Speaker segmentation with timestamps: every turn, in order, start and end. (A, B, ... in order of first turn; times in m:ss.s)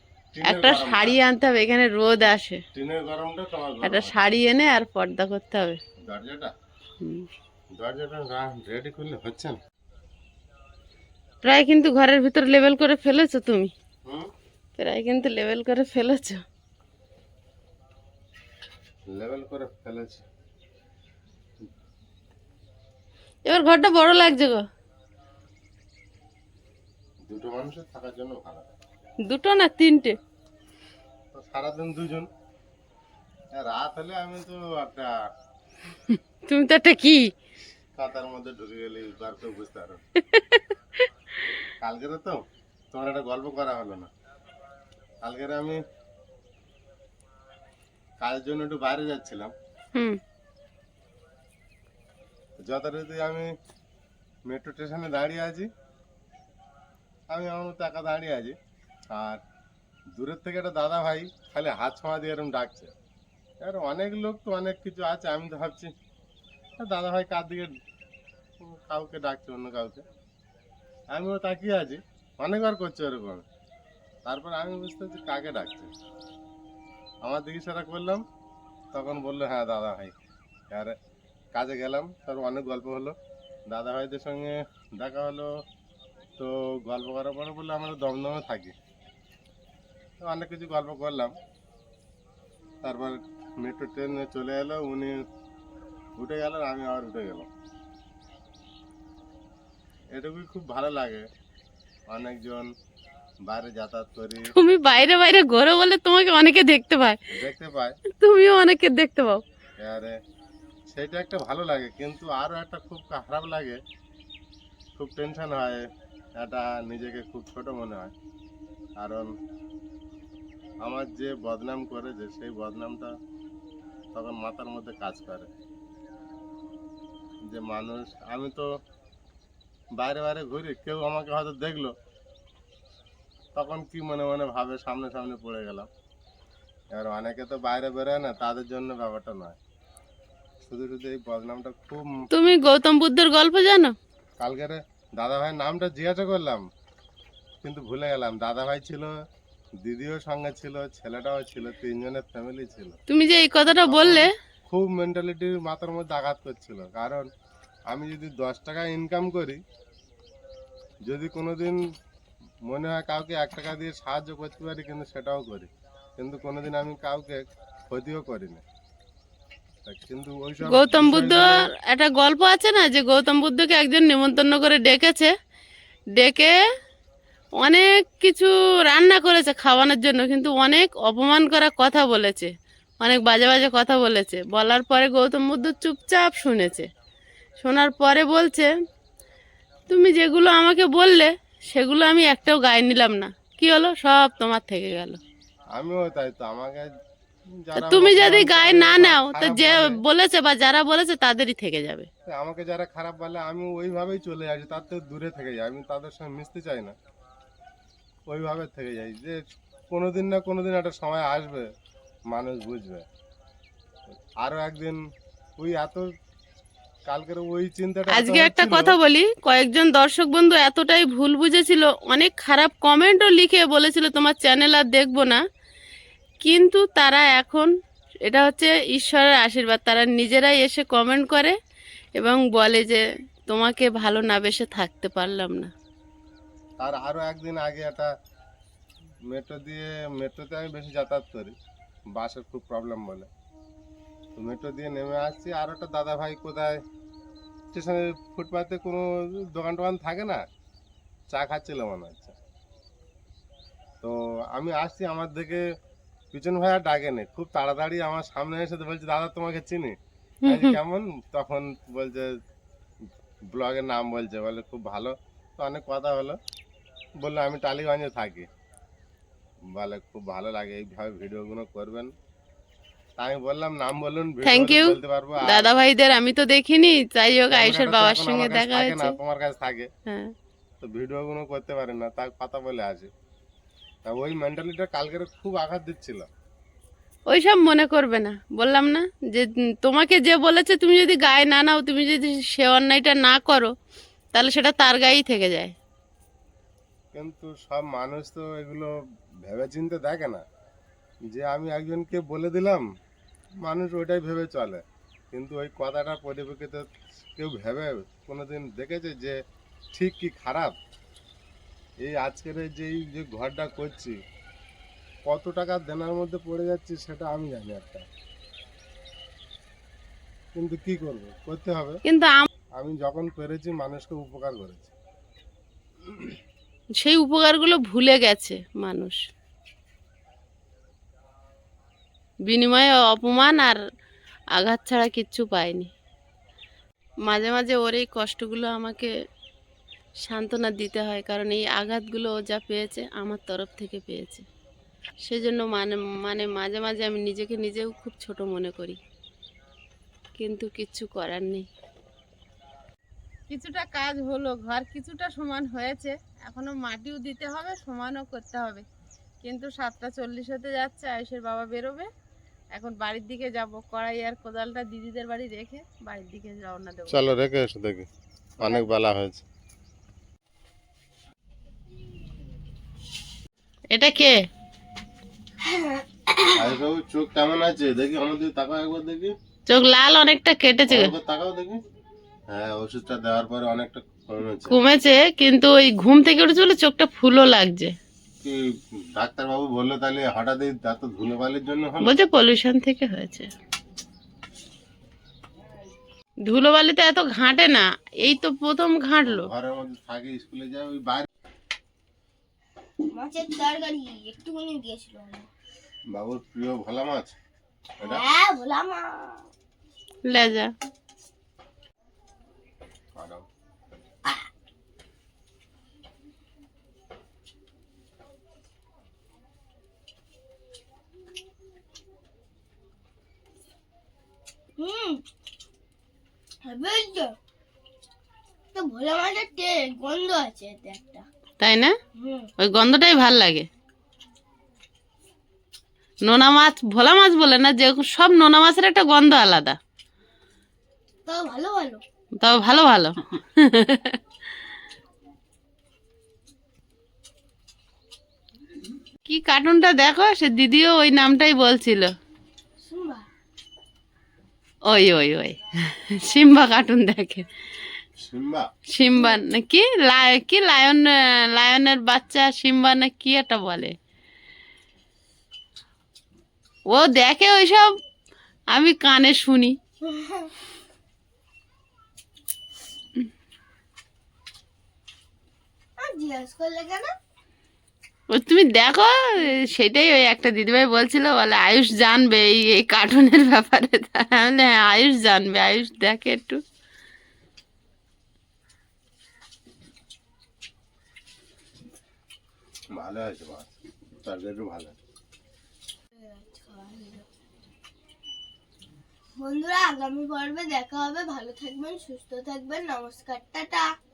0:00.3-0:01.2 A
0:00.4-0:02.6 B
0:02.7-0:04.2 A
0:03.8-0:05.8 B
0:06.1-0:06.5 A
0:07.0-0:07.3 B
0:07.8-0:09.6 A
0:11.4-0:13.7 B
0:14.8-0:16.4 B
0:19.1-0:20.2 A
0:23.5-0:24.6 B
0:27.3-0:28.7 A
0:29.3-0:30.2 B
0:31.3-0:32.3 A
0:33.6-0:35.1 A
0:36.1-0:37.3 B
0:38.0-0:40.0 A
0:40.2-0:41.0 B
0:41.8-0:42.4 A
0:42.9-0:44.1 A
0:45.2-0:45.8 A
0:48.2-0:49.5 A
0:52.6-0:53.5 A
0:54.5-0:55.7 A
0:57.3-0:58.6 A
0:59.1-0:59.4 A
1:00.1-1:02.9 A
1:03.6-1:05.9 A
1:06.8-1:07.7 A
1:08.6-1:10.0 A
1:11.1-1:13.4 A
1:14.2-1:15.9 A
1:17.2-1:18.2 A
1:18.9-1:20.1 A
1:21.5-1:23.2 A
1:23.7-1:25.5 A
1:26.4-1:28.7 A
1:30.2-1:31.3 A
1:32.8-1:35.2 A
1:36.2-1:37.5 A
1:40.1-1:41.2 A
1:42.1-1:42.7 A
1:43.4-1:44.5 A
1:44.5-1:47.2 B
1:47.3-1:48.0 A
1:48.1-1:49.4 B
1:49.8-1:50.2 A
1:50.9-1:53.8 A
1:55.0-1:58.1 A
1:59.0-1:59.3 A
2:00.8-2:03.1 A
2:04.1-2:05.5 A
2:07.4-2:08.7 A
2:10.0-2:11.9 A
2:13.5-2:15.9 A
2:16.9-2:19.6 A
2:20.6-2:22.2 A
2:22.3-2:23.9 B
2:24.4-2:26.6 A
2:27.6-2:29.2 A
2:29.8-2:33.0 A
2:33.1-2:34.3 B
2:33.7-2:37.3 A
2:37.9-2:39.6 A
2:41.0-2:41.8 A
2:42.6-2:48.6 A
2:49.8-2:51.7 A
2:50.6-2:55.3 B
2:56.2-2:56.5 B
2:57.6-3:06.9 B
3:07.6-3:08.7 B
3:09.9-3:15.2 B
3:15.7-3:16.9 A
3:17.6-3:20.0 A
3:17.7-3:22.1 B
3:22.2-3:26.9 A
3:28.3-3:31.7 A
3:32.3-3:33.0 A
3:34.4-3:35.0 A
3:35.6-3:36.0 A
3:37.1-3:38.9 A
3:38.1-3:45.4 B
3:46.4-3:47.7 B
3:48.2-3:51.6 B
3:52.2-3:55.7 B
3:56.8-3:58.1 A
3:59.3-4:01.5 A
4:02.2-4:03.3 A
4:04.3-4:06.8 A
4:07.7-4:10.4 A
4:11.3-4:12.4 A
4:14.0-4:15.7 A
4:16.3-4:22.4 A
4:20.4-4:20.8 B
4:23.5-4:26.4 A
4:27.2-4:28.5 A
4:29.7-4:32.1 A
4:33.2-4:35.7 A
4:34.4-4:39.2 B
4:37.5-4:39.9 A
4:40.1-4:40.3 B
4:40.8-4:43.1 A
4:44.0-4:46.3 A
4:47.3-4:53.7 B
4:54.3-4:55.7 B
4:57.1-4:58.9 A
4:59.4-5:00.4 A
5:01.3-5:02.8 A
5:03.6-5:09.4 A
5:09.9-5:10.8 A
5:12.0-5:14.2 A
5:15.3-5:18.1 A
5:20.5-5:22.0 A
5:22.0-5:22.5 B
5:22.8-5:24.9 A
5:26.0-5:26.4 A
5:27.0-5:29.2 B
5:32.5-5:33.8 B
5:34.5-5:35.9 B
5:37.2-5:39.1 B
5:40.2-5:44.4 B
5:45.2-5:49.0 B
5:50.4-5:51.7 B
5:53.5-5:58.8 B
5:59.4-6:02.1 B
6:02.7-6:07.3 B
6:07.1-6:09.4 A
6:13.9-6:14.4 B
6:15.6-6:16.7 C
6:16.5-6:19.3 A
6:19.7-6:21.1 B
6:20.9-6:21.8 A
6:22.5-6:24.8 A
6:24.7-6:27.9 B
6:29.1-6:32.2 A
6:32.0-6:33.5 B
6:36.4-6:39.5 B
6:39.2-6:41.3 A
6:43.1-6:45.5 C
6:46.1-6:47.3 A
6:48.0-6:49.4 C
6:50.2-6:50.7 B
6:53.1-6:53.4 A
7:04.8-7:05.2 C
7:06.6-7:07.3 C
7:08.7-7:11.2 C
7:11.6-7:11.9 B
7:12.2-7:12.5 C
7:12.6-7:13.7 B
7:16.2-7:19.8 B
7:21.2-7:22.0 C
7:22.4-7:24.2 B
7:29.2-7:32.1 B
7:32.8-7:33.2 C
7:34.9-7:37.5 B
7:38.2-7:38.7 A
7:38.9-7:43.9 B
7:46.9-7:47.9 B
7:48.7-7:49.8 B
7:50.0-7:50.5 C
7:56.0-7:57.1 C
7:58.3-8:06.6 B
8:12.9-8:13.7 A
8:14.2-8:15.0 A
8:16.2-8:17.2 C
8:19.4-8:23.9 C